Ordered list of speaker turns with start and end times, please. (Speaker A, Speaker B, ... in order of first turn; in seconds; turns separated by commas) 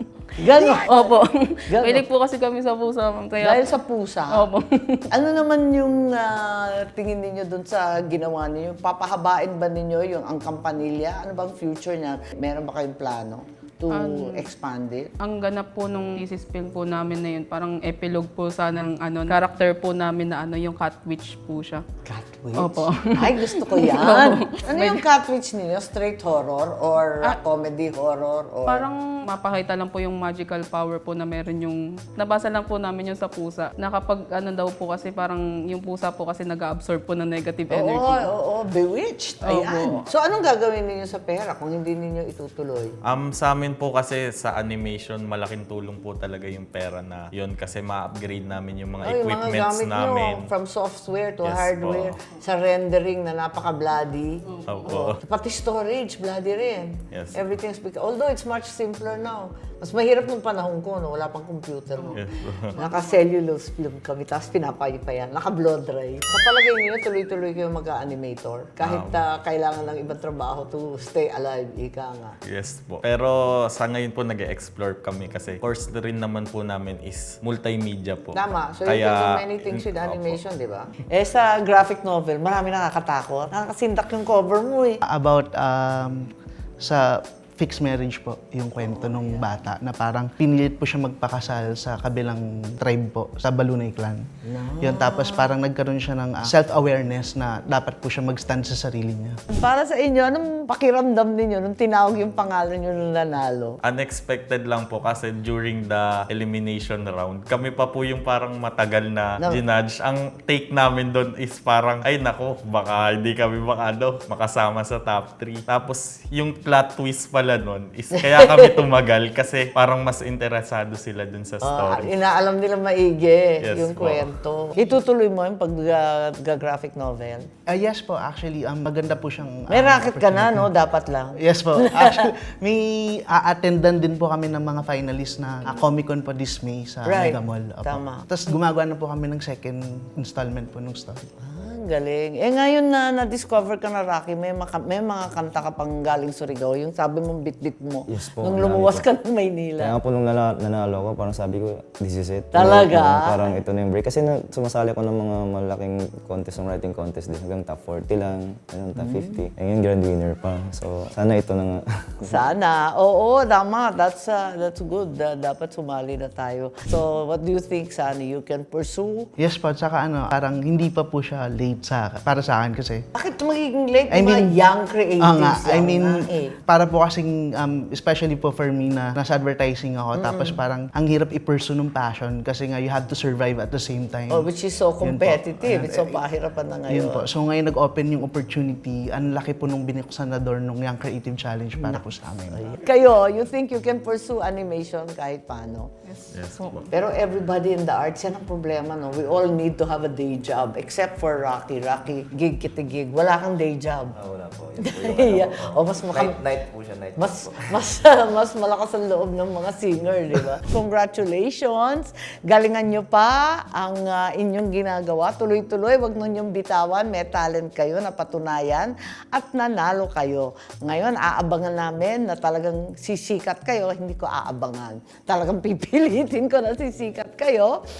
Speaker A: 0.4-3.8, Speaker B: 0.4-2.0, Speaker B: 3.4-4.5, Speaker A: 4.3-5.1, Speaker B: 5.1-15.1, Speaker A: 13.9-14.4, Speaker A: 15.2-21.8, Speaker B: 22.0-28.9, Speaker A: 22.5-25.0, Speaker A: 28.7-38.3, Speaker B: 37.7-43.0, Speaker A: 39.4-40.0, Speaker C: 43.0-50.5, Speaker B: 49.0-72.3, Speaker C: 51.4-52.2, Speaker C: 54.7-55.2, Speaker C: 57.1-57.4, Speaker C: 62.1-62.8, Speaker C: 68.8-69.2, Speaker C: 72.5-80.4, Speaker B: 78.3-85.0, Speaker D: 85.0-94.3, Speaker B: 88.8-89.5, Speaker B: 94.5-95.5, Speaker D: 94.8-99.4, Speaker B: 99.5-103.8, Speaker C: 103.8-122.1, Speaker B: 118.2-118.8, Speaker B: 121.6-127.5, Speaker C: 123.6-124.2, Speaker D: 127.7-130.7, Speaker B: 129.7-132.3, Speaker D: 131.4-141.2, Speaker B: 137.0-138.3, Speaker B: 141.4-150.0, Speaker E: 148.1-149.0, Speaker E: 149.8-162.4, Speaker B: 152.5-153.3, Speaker B: 159.0-159.4, Speaker B: 162.3-169.3, Speaker D: 169.4-173.0, Speaker B: 173.2-176.6, Speaker D: 174.1-174.5, Speaker D: 175.2-184.5, Speaker B: 180.1-180.6, Speaker B: 184.3-187.3, Speaker D: 185.0-186.2, Speaker D: 186.9-192.7, Speaker B: 191.8-195.9, Speaker A: 196.0-196.9, Speaker C: 196.3-196.8, Speaker B: 196.9-204.2, Speaker E: 204.2-207.5, Speaker B: 204.8-206.4, Speaker B: 207.2-227.8